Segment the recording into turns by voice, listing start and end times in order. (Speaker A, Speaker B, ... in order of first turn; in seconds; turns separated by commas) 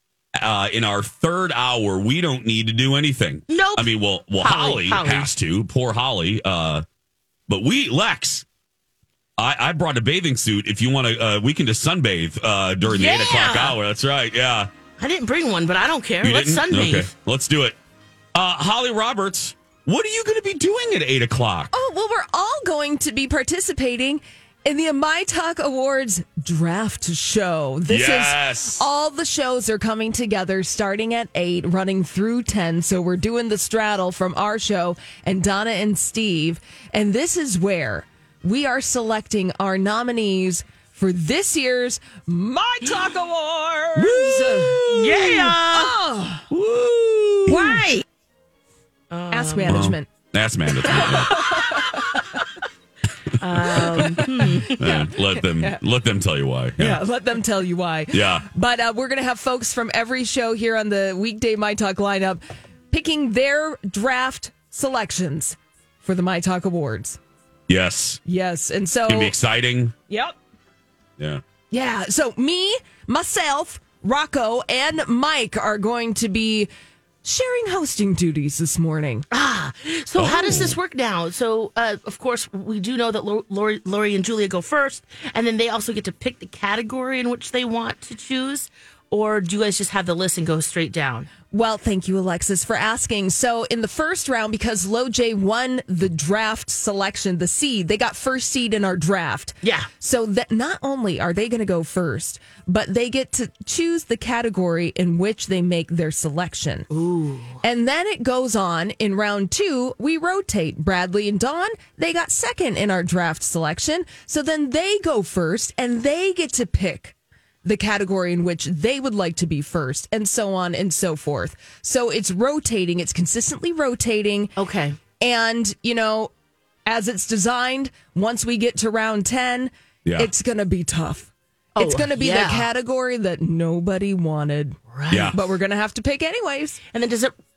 Speaker A: 0.4-6.8, Speaker B: 3.5-5.3, Speaker A: 7.5-8.4, Speaker A: 9.4-14.7, Speaker B: 12.8-13.8, Speaker B: 15.0-17.1, Speaker A: 16.2-17.8, Speaker A: 18.3-21.7, Speaker C: 21.7-46.5, Speaker A: 27.9-28.9, Speaker A: 44.0-45.2, Speaker B: 44.9-45.9, Speaker A: 46.5-47.6, Speaker C: 47.5-48.0, Speaker B: 47.5-47.9, Speaker B: 49.1-49.9, Speaker C: 49.3-50.1, Speaker A: 49.7-51.3, Speaker B: 50.9-52.1, Speaker C: 51.0-52.4, Speaker A: 53.4-57.0, Speaker B: 53.4-55.0, Speaker C: 53.6-55.8, Speaker C: 56.8-67.2, Speaker A: 58.1-58.5, Speaker A: 67.7-68.2, Speaker C: 68.2-69.3, Speaker A: 69.1-69.9, Speaker C: 70.1-70.4, Speaker C: 71.7-76.7, Speaker C: 77.2-79.3, Speaker B: 79.3-91.3, Speaker A: 80.2-80.8, Speaker C: 91.5-106.9, Speaker B: 99.6-99.9, Speaker B: 106.9-107.6, Speaker C: 107.6-124.5, Speaker B: 124.6-125.0, Speaker C: 125.2-126.3, Speaker C: 126.8-136.8, Speaker A: 130.0-130.3, Speaker B: 131.8-132.7, Speaker B: 134.9-135.3, Speaker A: 135.1-135.4, Speaker B: 136.9-137.3